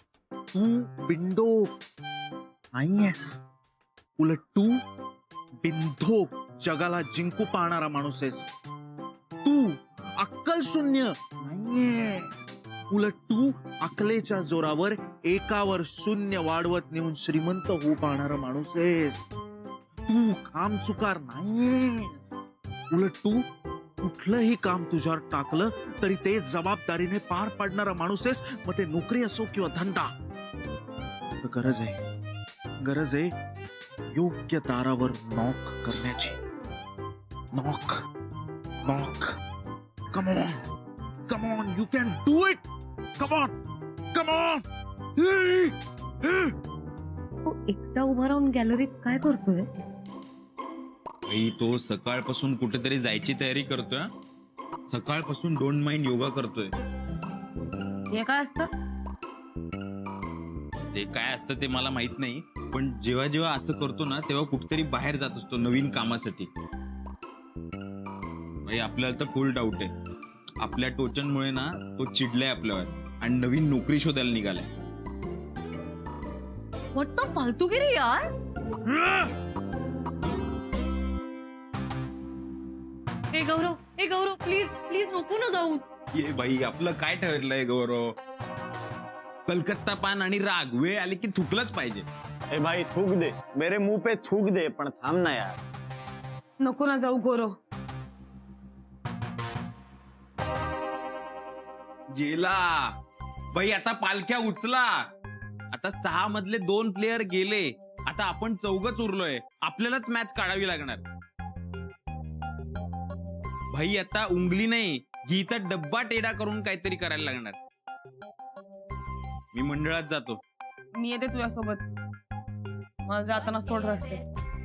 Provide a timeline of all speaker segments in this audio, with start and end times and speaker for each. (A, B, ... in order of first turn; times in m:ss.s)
0:00.5-0:01.7 A
0:02.8-0:03.4 A
0:04.2-0:04.8 A
0:05.6-0:08.5 A
0:09.4-0:12.3 A
0:12.9-0:19.3 A
0:20.1-0:22.3 A
0:22.9-0:23.4 A
0:24.0-0:30.1 A
0:31.4-0:32.0 A
0:32.8-0:33.3 A
0:34.1-0:36.4 A
0:37.5-0:38.0 A
0:38.8-0:39.4 A
0:40.1-0:40.6 A
0:41.3-0:42.6 A
0:43.2-0:43.6 A
0:44.1-0:44.6 A
0:45.2-0:45.7 A
0:47.5-0:49.7 B
0:51.3-0:54.1 C
0:54.9-0:56.7 C
0:58.1-0:58.7 D
1:00.9-1:06.5 C
1:08.6-1:09.9 C
1:10.6-1:14.7 C
1:17.0-1:18.3 B
1:23.3-1:25.8 B
1:26.1-1:28.0 C
1:29.5-1:32.1 C
1:32.5-1:35.6 E
1:36.6-1:37.5 D
1:42.2-1:42.9 C
1:43.5-1:45.0 C
1:45.7-1:51.0 C
1:53.7-1:57.6 C
1:59.5-2:00.4 C
2:01.0-2:01.8 D
2:03.1-2:04.2 D